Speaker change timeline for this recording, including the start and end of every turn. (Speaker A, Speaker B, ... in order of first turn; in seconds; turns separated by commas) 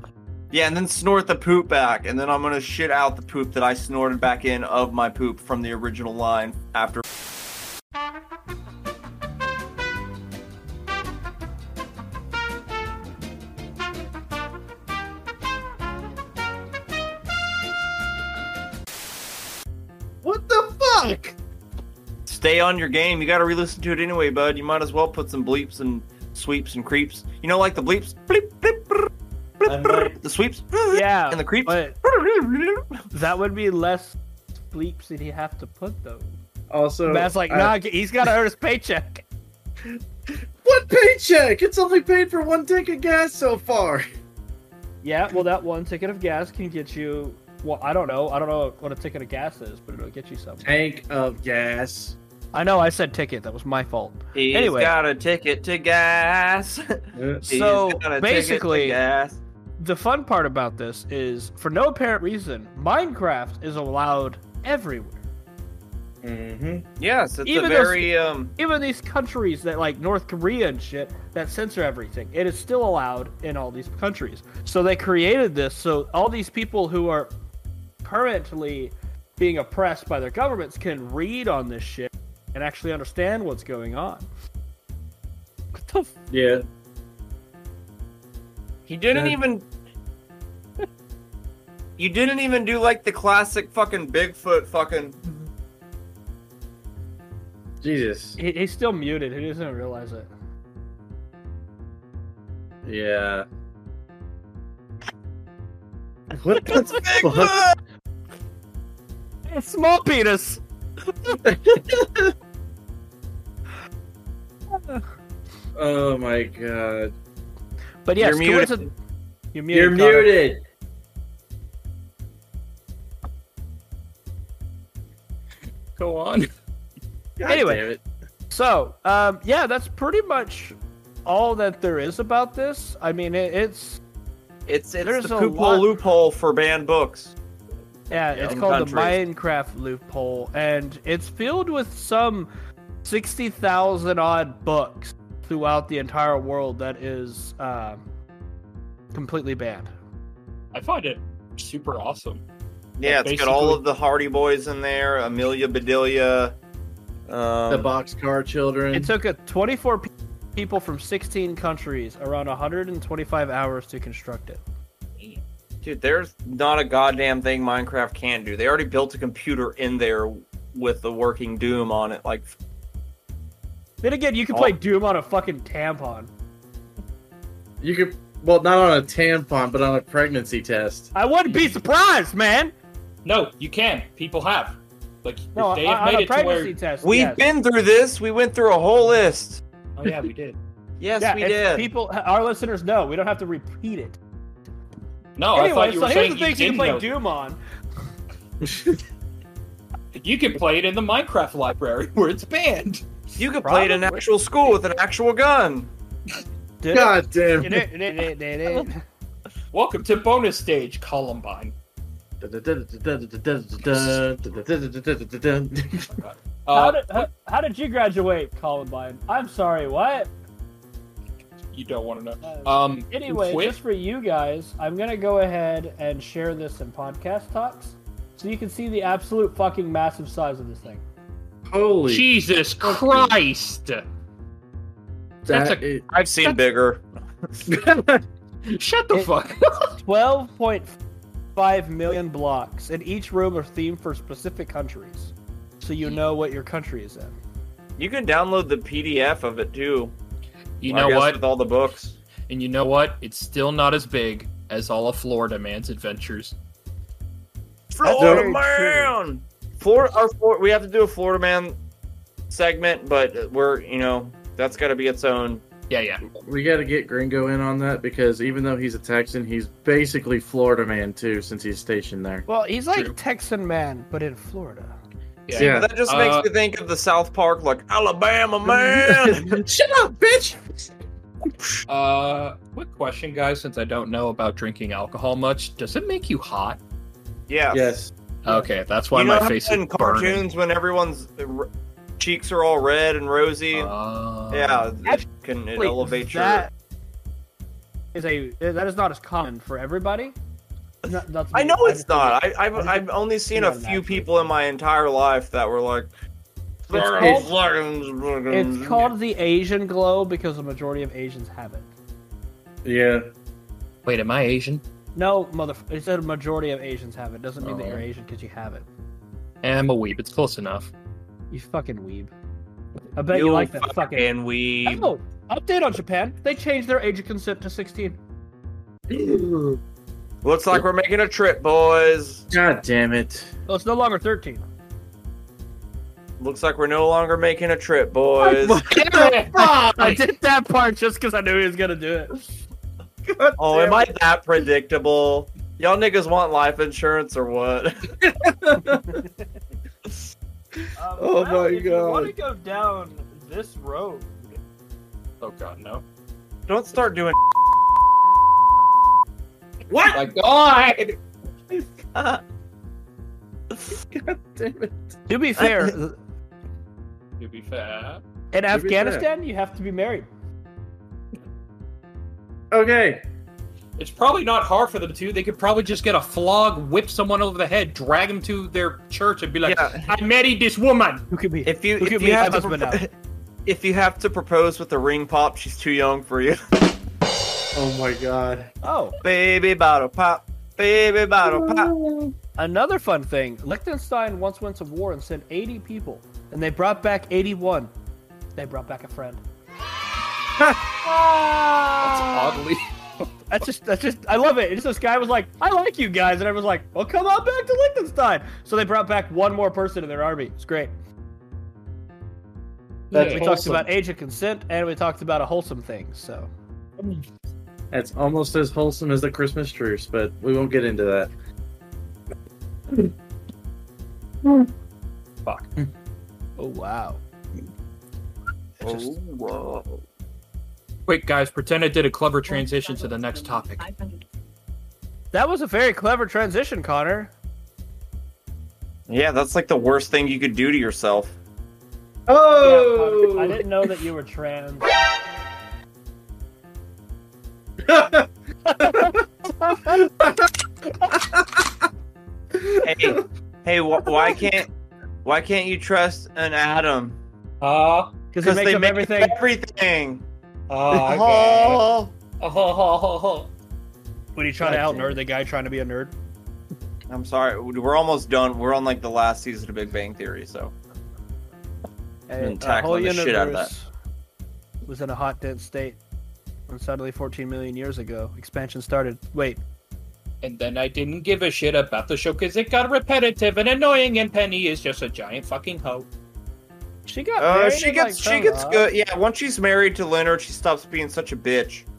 Speaker A: 0.5-7.0, Speaker B: 20.2-21.4, Speaker A: 22.3-32.9, Speaker B: 29.6-30.1, Speaker C: 30.9-31.9, Speaker C: 33.1-36.4, Speaker B: 36.7-37.7, Speaker C: 37.1-39.2, Speaker B: 40.6-44.1, Speaker C: 45.0-50.6, Speaker B: 50.6-52.1, Speaker C: 52.5-54.9, Speaker A: 54.4-59.4, Speaker B: 57.1-57.5, Speaker C: 57.5-59.0, Speaker C: 59.8-65.2, Speaker B: 66.2-66.8, Speaker A: 67.0-68.5, Speaker C: 67.5-77.3, Speaker C: 78.0-84.3, Speaker C: 85.7-86.1, Speaker B: 86.3-86.6, Speaker A: 88.9-89.7, Speaker B: 89.1-89.4, Speaker A: 92.0-95.2, Speaker B: 97.8-98.4, Speaker C: 98.4-100.3, Speaker B: 102.8-103.5, Speaker B: 106.3-107.6, Speaker A: 106.6-107.8, Speaker C: 109.5-110.6, Speaker B: 111.4-112.3, Speaker C: 114.7-115.0, Speaker B: 115.8-117.1, Speaker C: 118.0-118.9, Speaker A: 118.2-118.9, Speaker C: 119.5-120.3, Speaker B: 119.7-120.6, Speaker D: 126.0-126.5, Speaker B: 127.4-128.0, Speaker C: 127.5-127.8, Speaker C: 128.5-134.0, Speaker A: 134.7-137.3, Speaker C: 135.0-135.9, Speaker C: 138.1-142.5, Speaker A: 138.3-139.2, Speaker C: 143.1-148.0, Speaker C: 149.1-149.9, Speaker D: 150.7-152.4, Speaker A: 153.0-156.5, Speaker D: 153.0-153.8, Speaker A: 157.3-157.9, Speaker B: 157.7-159.1, Speaker C: 158.9-164.6, Speaker A: 165.2-172.5, Speaker C: 174.0-176.3, Speaker B: 177.8-181.1, Speaker C: 181.1-182.7, Speaker D: 183.2-186.8, Speaker C: 185.6-187.4, Speaker A: 187.0-189.6, Speaker D: 190.0-190.6, Speaker A: 191.0-191.9, Speaker C: 191.2-194.2, Speaker D: 195.4-197.1, Speaker C: 195.5-197.6, Speaker B: 198.6-199.0, Speaker D: 200.2-203.1, Speaker A: 203.4-205.9, Speaker C: 203.6-204.2, Speaker C: 206.8-209.0, Speaker B: 206.9-207.9, Speaker D: 209.7-211.7, Speaker B: 212.4-216.1, Speaker D: 213.9-214.2, Speaker D: 216.0-217.3, Speaker C: 216.7-220.3, Speaker D: 221.7-223.8, Speaker C: 222.4-231.0, Speaker B: 231.7-232.3, Speaker D: 232.1-234.1, Speaker B: 232.8-233.3, Speaker D: 235.4-235.8, Speaker B: 235.5-236.0, Speaker A: 236.1-237.6, Speaker B: 237.7-238.2, Speaker D: 238.7-239.9, Speaker C: 240.0-240.9, Speaker C: 241.6-247.4, Speaker A: 248.0-250.1, Speaker D: 250.8-251.4, Speaker A: 250.9-252.1, Speaker D: 252.5-256.6, Speaker A: 257.9-261.8, Speaker C: 258.0-259.1, Speaker B: 258.1-258.5, Speaker A: 262.5-265.6, Speaker D: 265.9-266.2, Speaker B: 266.4-272.4, Speaker C: 272.5-274.9, Speaker D: 275.5-276.5, Speaker B: 275.5-275.9, Speaker A: 275.5-279.6, Speaker B: 278.7-280.9, Speaker D: 281.9-286.8, Speaker A: 287.5-287.9, Speaker B: 287.7-288.6, Speaker D: 288.4-290.4, Speaker A: 289.1-293.9, Speaker D: 293.7-294.9, Speaker A: 294.5-296.7, Speaker C: 295.8-296.7, Speaker C: 298.1-300.4, Speaker A: 301.0-306.1, Speaker C: 301.1-304.3, Speaker A: 306.9-309.1, Speaker C: 306.9-307.5, Speaker B: 307.1-307.5, Speaker C: 308.5-311.9, Speaker B: 312.8-313.3, Speaker D: 314.1-314.8, Speaker C: 315.1-318.9, Speaker B: 317.6-318.0, Speaker D: 319.6-320.9, Speaker C: 321.5-322.3, Speaker C: 323.1-324.3, Speaker A: 323.3-325.1, Speaker C: 324.9-328.2, Speaker B: 329.1-329.8, Speaker A: 330.4-332.4, Speaker B: 332.5-333.5, Speaker C: 333.7-334.6, Speaker A: 336.4-338.8, Speaker B: 338.5-340.2, Speaker C: 338.9-342.3, Speaker D: 339.1-339.7, Speaker B: 343.3-344.1, Speaker A: 343.6-348.2, Speaker B: 348.2-349.2, Speaker C: 348.8-349.3, Speaker C: 351.0-354.6, Speaker B: 351.2-352.3, Speaker D: 355.4-356.0, Speaker A: 356.7-357.4, Speaker B: 359.9-360.2, Speaker D: 360.1-361.2, Speaker A: 362.1-362.4, Speaker B: 364.1-364.9, Speaker C: 365.3-366.1, Speaker A: 365.6-365.9, Speaker D: 367.4-368.2, Speaker C: 368.5-370.3, Speaker B: 368.7-369.3, Speaker B: 372.7-373.2, Speaker D: 374.0-381.2, Speaker A: 379.6-380.0, Speaker C: 381.3-383.0, Speaker A: 381.7-383.1, Speaker A: 383.7-386.6, Speaker B: 387.7-388.7, Speaker C: 388.8-389.2, Speaker A: 389.2-391.9, Speaker B: 391.4-392.3, Speaker C: 392.6-397.9, Speaker C: 398.6-399.4, Speaker B: 400.6-400.9, Speaker C: 401.1-402.3, Speaker D: 402.0-403.6, Speaker C: 403.5-410.9, Speaker D: 413.1-413.9, Speaker B: 413.1-413.8, Speaker C: 413.2-416.5, Speaker B: 417.9-421.3, Speaker C: 426.6-427.2, Speaker A: 428.8-430.0, Speaker D: 431.1-434.1, Speaker C: 435.3-437.3, Speaker A: 439.1-441.4, Speaker B: 442.3-443.7, Speaker C: 442.5-444.9, Speaker B: 447.9-448.3, Speaker C: 448.7-450.0, Speaker B: 448.8-449.2, Speaker B: 449.8-451.7, Speaker B: 452.5-453.2, Speaker A: 452.8-454.7, Speaker B: 454.1-454.4, Speaker A: 455.2-457.2, Speaker D: 457.6-458.1, Speaker C: 458.3-459.4, Speaker A: 458.4-460.2, Speaker D: 460.7-461.8, Speaker A: 460.9-462.1, Speaker D: 462.4-463.5, Speaker C: 464.4-466.1, Speaker B: 464.6-465.2, Speaker A: 467.1-470.7, Speaker C: 472.3-473.9, Speaker A: 472.4-473.7, Speaker C: 474.9-476.0, Speaker C: 476.7-479.6, Speaker D: 480.4-486.1, Speaker C: 487.1-488.9, Speaker A: 487.4-491.9